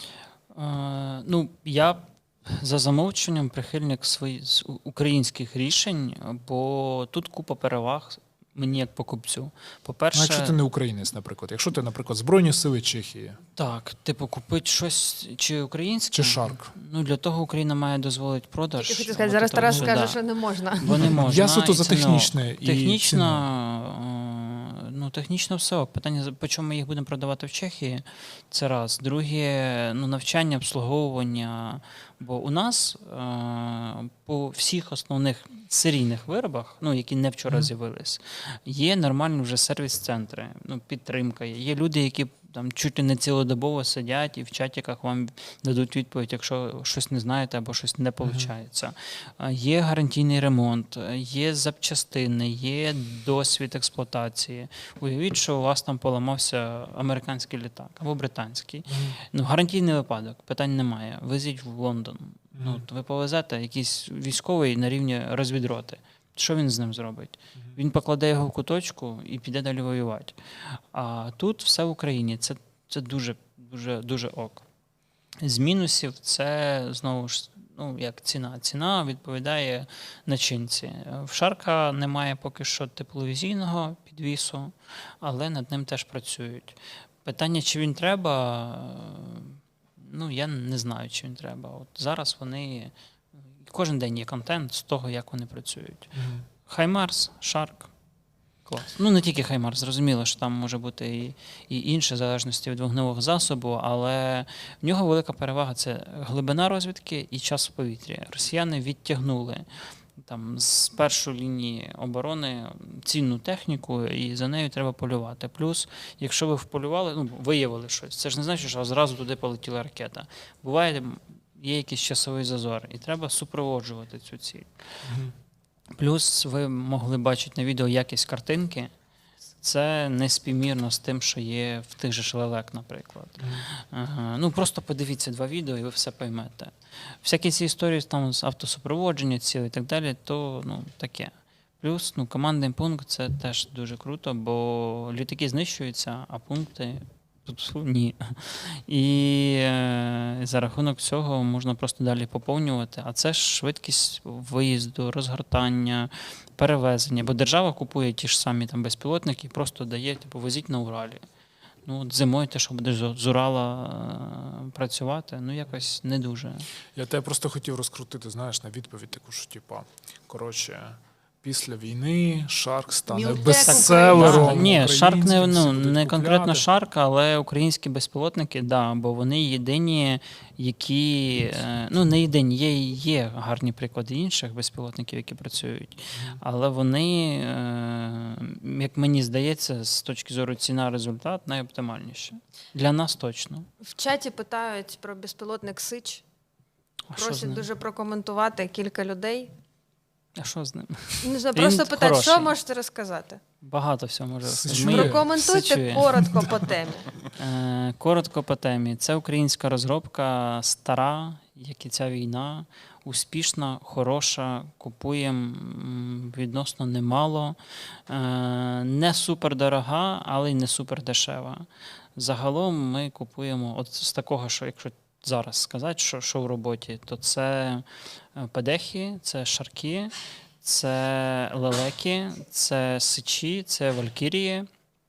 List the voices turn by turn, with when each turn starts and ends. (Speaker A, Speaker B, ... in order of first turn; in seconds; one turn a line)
Speaker A: 0.5-10.6
Speaker B: 10.1-13.4
Speaker A: 13.6-20.2
Speaker B: 16.1-16.7
Speaker C: 18.8-21.2
Speaker A: 20.8-74.6
Speaker B: 21.1-23.4
Speaker B: 48.2-48.5
Speaker B: 58.9-59.2
Speaker B: 62.5-62.8
Speaker A: 75.4-92.9
Speaker A: 93.6-96.1
Speaker B: 96.1-96.5
Speaker A: 96.7-97.9
Speaker A: 98.7-109.7
Speaker A: 110.2-124.7
Speaker B: 125.0-125.3
Speaker A: 126.0-128.9
Speaker A: 129.6-161.2
Speaker B: 133.4-133.6
Speaker A: 161.8-166.7
Speaker B: 166.9-176.7
Speaker C: 173.1-174.7
Speaker A: 173.5-193.7
Speaker B: 186.1-186.4
Speaker C: 193.8-196.2
Speaker A: 197.1-197.7
Speaker C: 197.2-199.5
Speaker A: 200.4-202.5
Speaker C: 201.2-203.4
Speaker A: 203.6-206.2
Speaker B: 204.4-205.3
Speaker C: 204.8-207.1
Speaker B: 206.2-206.6
Speaker A: 207.3-234.7